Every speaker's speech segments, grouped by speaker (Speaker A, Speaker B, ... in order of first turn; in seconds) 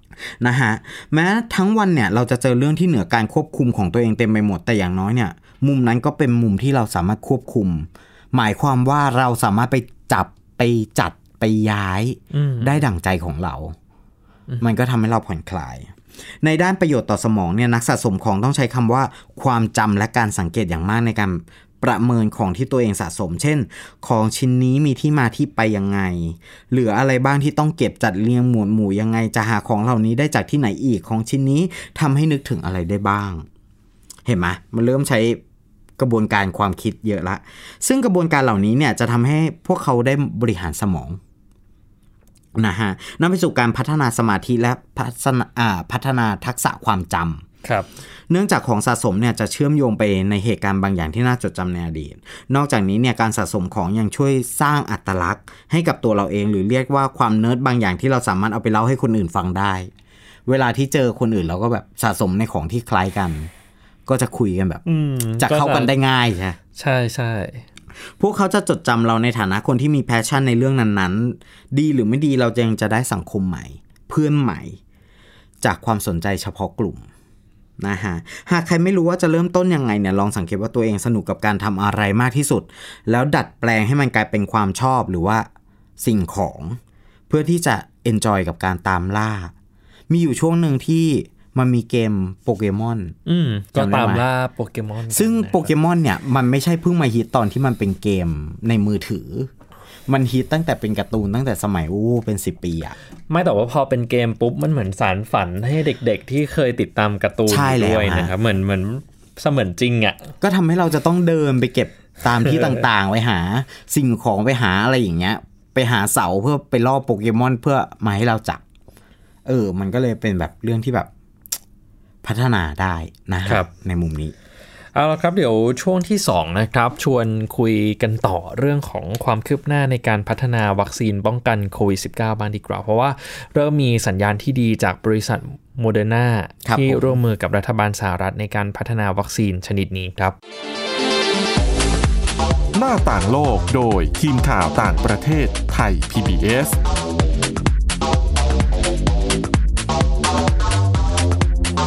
Speaker A: 0.4-13.8, 14.6-33.5, 34.2-35.4, 36.0-41.2, 42.6-47.5, 48.3-59.9, 60.5-63.5, 64.1-64.8, 65.4-66.6, 68.2-74.8, 75.6-77.1, 77.8-86.8, 87.3-89.5, 90.1-93.2, 93.8-94.2, 95.1-99.5, 100.1-103.0, 107.5-108.3, 110.4-118.6, 119.5-121.1, 122.2-124.3, 136.6-137.2
Speaker B: 12.3-12.8, 47.6-47.9, 64.9-65.9, 66.8-67.6, 93.2-95.7, 103.3-110.3, 112.5-112.7, 123.5-123.7, 125.0-140.4
Speaker C: 142.8-146.8